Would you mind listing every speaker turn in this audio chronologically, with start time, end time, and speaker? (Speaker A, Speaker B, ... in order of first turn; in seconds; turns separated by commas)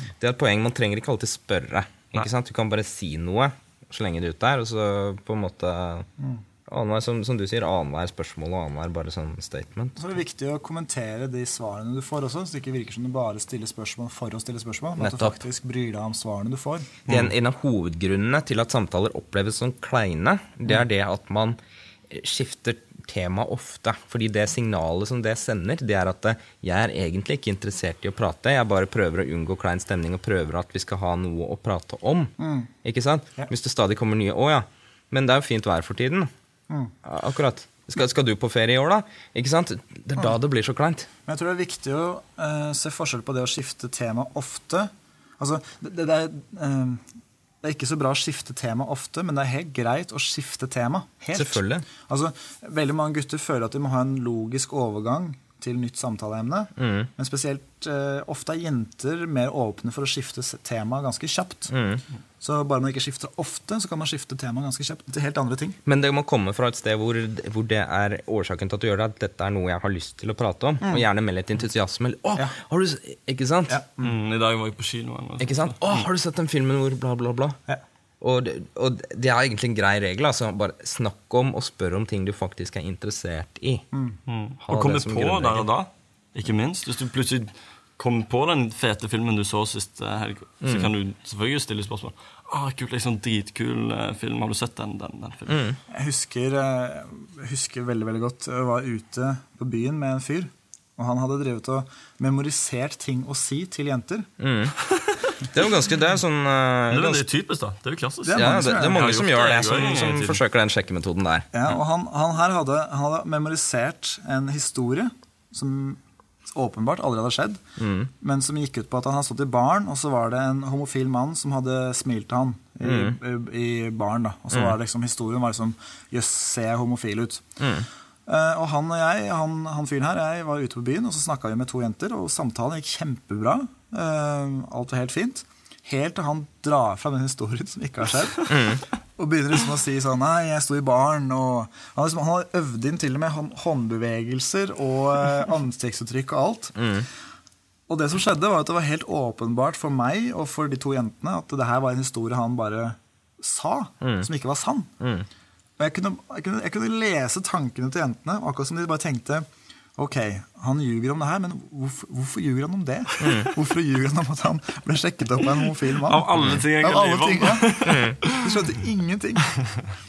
Speaker A: 0.2-6.1, Speaker A: 6.7-10.0, Speaker B: 10.0-16.9, Speaker A: 15.0-15.4, Speaker C: 17.1-17.3, Speaker A: 17.1-21.6, Speaker A: 22.1-36.3, Speaker B: 32.4-32.7, Speaker A: 37.0-41.1, Speaker B: 41.3-47.0, Speaker B: 47.6-61.7, Speaker A: 51.3-51.9, Speaker A: 56.8-57.1, Speaker A: 61.7-62.0, Speaker B: 62.4-65.8, Speaker A: 65.8-73.8, Speaker B: 73.7-74.2, Speaker C: 74.0-76.0, Speaker A: 75.4-77.6, Speaker A: 78.2-83.8, Speaker C: 84.3-95.6, Speaker A: 84.6-85.7, Speaker A: 90.6-90.9, Speaker A: 95.5-95.8, Speaker B: 95.9-104.3, Speaker A: 104.4-104.8, Speaker C: 104.9-105.4, Speaker A: 105.5-107.2, Speaker C: 106.9-110.4, Speaker B: 108.2-109.0, Speaker A: 108.3-111.5, Speaker B: 111.5-117.6, Speaker A: 117.8-118.1, Speaker B: 118.2-127.4, Speaker A: 122.8-123.2, Speaker A: 127.6-127.9, Speaker B: 128.3-138.5, Speaker A: 138.5-138.8, Speaker B: 139.2-146.8, Speaker A: 146.8-147.1, Speaker B: 147.9-154.9, Speaker A: 154.0-154.3, Speaker A: 155.0-155.3, Speaker B: 155.8-169.5, Speaker A: 163.2-163.5, Speaker C: 166.0-168.5, Speaker A: 166.4-166.6, Speaker A: 167.8-168.2